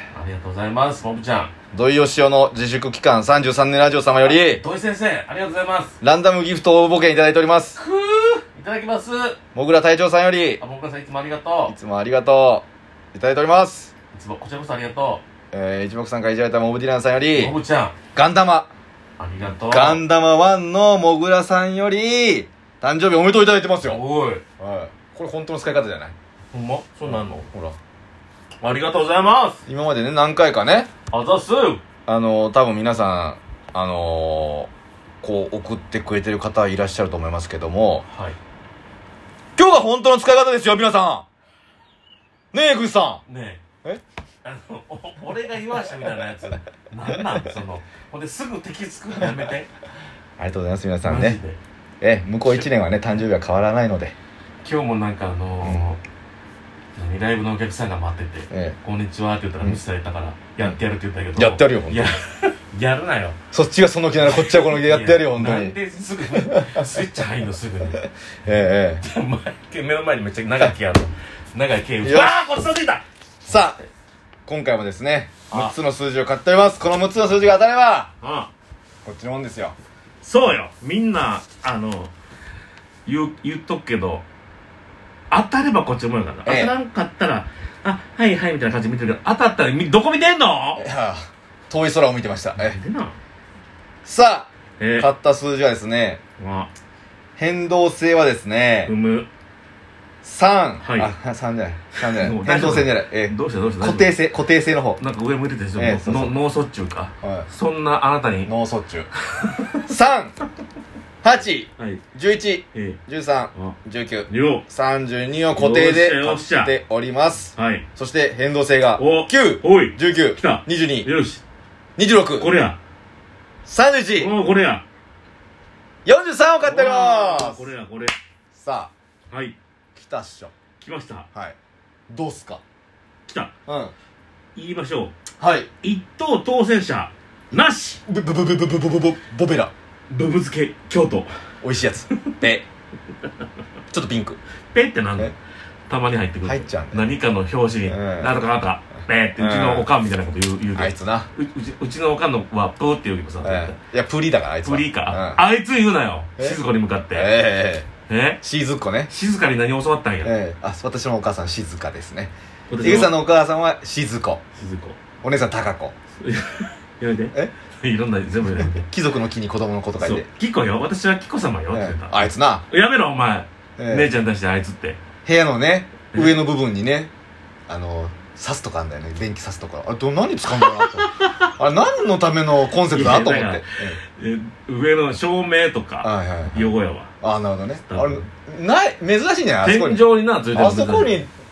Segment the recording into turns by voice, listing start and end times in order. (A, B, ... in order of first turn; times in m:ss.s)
0:00.1-0:01.5 A
0:01.7-0:04.6 B
0:04.2-0:06.0 A
0:06.0-0:07.8 B
0:07.8-0:09.4 A
0:09.6-0:10.6 B
0:10.6-0:11.7 A
0:11.7-0:13.9 B
0:14.1-0:15.2 A
0:15.5-0:17.6 B
0:17.3-0:17.9 A
0:18.1-0:18.7 B
0:19.2-0:20.0 A
0:19.7-0:24.0 B
0:23.8-0:24.4 A
0:24.6-0:26.1 B
0:26.5-0:27.5 A
0:27.1-0:27.8 B
0:28.6-0:29.6 A
0:29.7-0:30.9 B
0:31.1-0:31.8 A
0:32.1-0:34.7 B
0:35.2-0:38.0 B
0:38.0-0:38.4 A
0:39.6-0:41.2 B
0:42.5-0:43.2 B
0:43.3-0:43.6 A
0:44.4-0:49.7 A
0:50.4-0:51.4 B
0:51.0-0:51.6 A
0:52.0-0:54.1 B
0:54.6-0:56.0 A
0:56.9-1:03.4 A
0:58.5-0:58.8 B
1:01.4-1:02.1 B
1:03.5-1:05.8 B
1:04.2-1:08.1 A
1:06.3-1:07.0 B
1:08.4-1:09.0 B
1:09.0-1:13.9 A
1:12.0-1:12.4 B
1:13.4-1:13.8 B
1:14.5-1:18.1 B
1:18.2-1:18.5 A
1:19.0-1:19.8 B
1:20.2-1:22.1 A
1:23.1-1:24.2 A
1:25.3-1:30.8 A
1:26.4-1:26.8 B
1:30.8-1:32.8 B
1:32.6-1:33.1 A
1:34.0-1:36.2 B
1:34.8-1:35.1 A
1:36.4-1:36.7 A
1:37.4-1:38.9 B
1:38.9-1:39.3 A
1:40.2-1:45.0 B
1:40.8-1:41.1 A
1:42.0-1:44.1 A
1:45.0-1:48.5 A
1:45.8-1:46.4 B
1:48.5-1:49.1 B
1:49.2-1:49.9 A
1:49.8-1:50.3 B
1:51.2-2:01.1 B
1:51.8-1:52.0 A
1:52.7-1:53.0 A
1:54.3-1:54.6 A
1:55.6-1:56.8 A
1:57.6-1:57.9 A
1:59.0-2:01.4 A
2:02.0-2:02.5 B
2:02.4-2:02.8 A
2:03.7-2:04.3 B
2:04.2-2:04.8 A
2:06.0-2:07.7 B
2:06.6-2:08.1 A
2:08.6-2:08.9 B
2:09.3-2:09.6 A
2:10.0-2:10.5 B
2:10.8-2:11.3 A
2:12.1-2:12.6 B
2:13.3-2:13.5 A
2:13.7-2:13.9 B
2:14.6-2:15.2 A
2:15.4-2:15.7 B
2:15.8-2:18.0 A
2:18.1-2:19.7 B
2:20.1-2:21.3 A
2:21.6-2:22.6 B
2:22.1-2:22.4 A
2:23.9-2:24.4 B
2:24.7-2:25.4 A
2:25.9-2:33.8 A
2:26.4-2:27.1 B
2:27.9-2:28.3 B
2:29.4-2:29.9 B
2:30.8-2:31.3 B
2:33.4-2:35.4 B
2:34.6-2:37.4 A
2:37.1-2:37.9 B
2:38.1-2:38.4 A
2:38.4-2:39.1 B
2:39.1-2:40.4 A
2:40.2-2:44.4 B
2:42.7-2:43.2 A
2:44.6-2:45.0 A
2:45.2-2:45.9 B
2:46.2-2:48.9 A
2:48.6-2:50.2 B
2:50.0-2:55.0 A
2:51.7-2:52.6 B
2:53.8-2:54.1 B
2:55.2-2:57.1 B
2:56.1-2:56.4 A
2:57.7-3:04.0 B
3:00.6-3:01.5 A
3:02.8-3:07.1 A
3:06.0-3:11.3 B
3:07.8-3:08.3 A
3:09.6-3:11.2 A